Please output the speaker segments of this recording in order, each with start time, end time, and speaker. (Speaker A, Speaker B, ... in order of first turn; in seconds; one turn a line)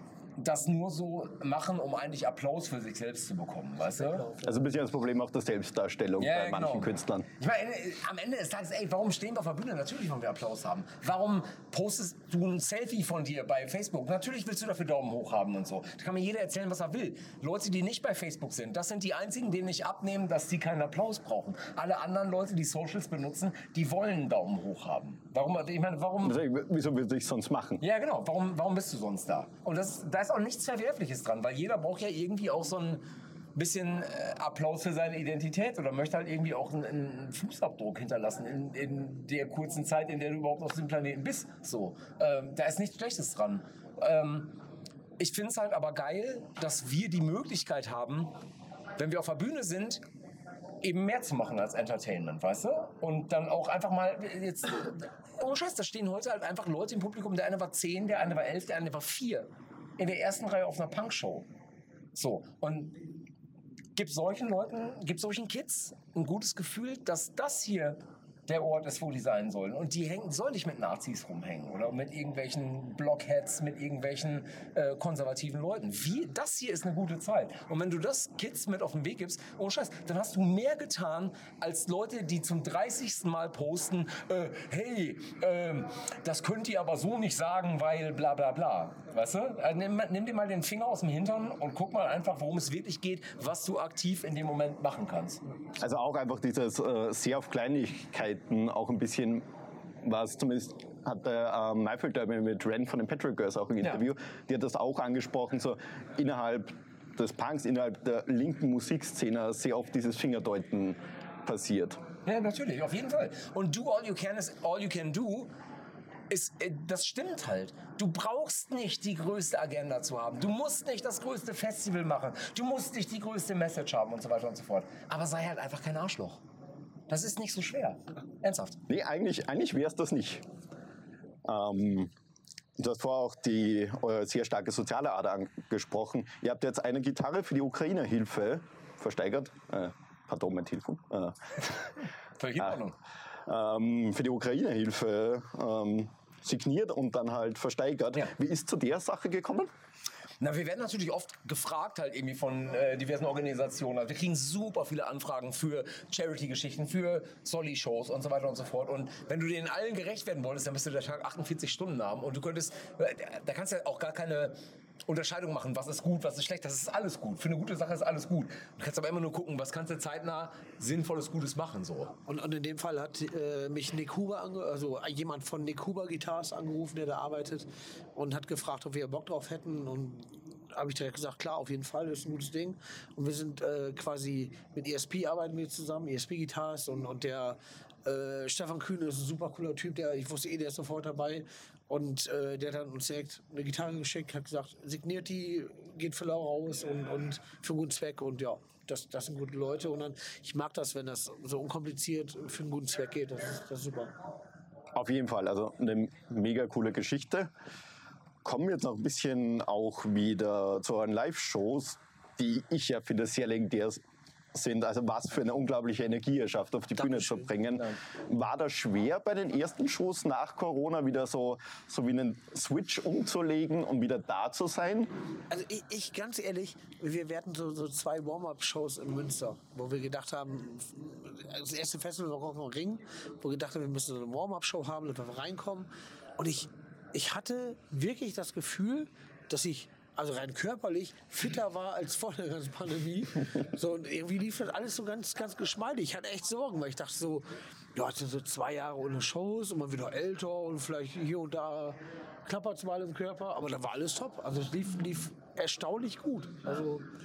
Speaker A: 0.4-4.3
Speaker B: 4.4-7.3
Speaker A: 6.2-26.4
Speaker B: 26.2-27.8
Speaker A: 27.8-44.6
Speaker A: 45.2-48.3
Speaker A: 49.0-50.0
Speaker A: 50.8-61.5
Speaker A: 62.1-63.1
Speaker A: 64.0-95.4
Speaker B: 95.8-99.4
Speaker B: 100.0-112.0
Speaker A: 112.2-115.5
Speaker A: 116.3-126.4
Speaker A: 127.1-128.8
Speaker B: 128.9-130.4
Speaker B: 131.4-132.1
Speaker B: 132.8-141.7
Speaker A: 142.4-142.9
Speaker B: 143.5-149.7
Speaker A: 150.4-164.6
Speaker A: 165.1-172.1
Speaker C: 172.2-204.1
Speaker B: 204.9-207.5
Speaker B: 208.4-214.0
Speaker B: 214.5-225.1
Speaker C: 217.0-217.5
Speaker C: 225.5-257.1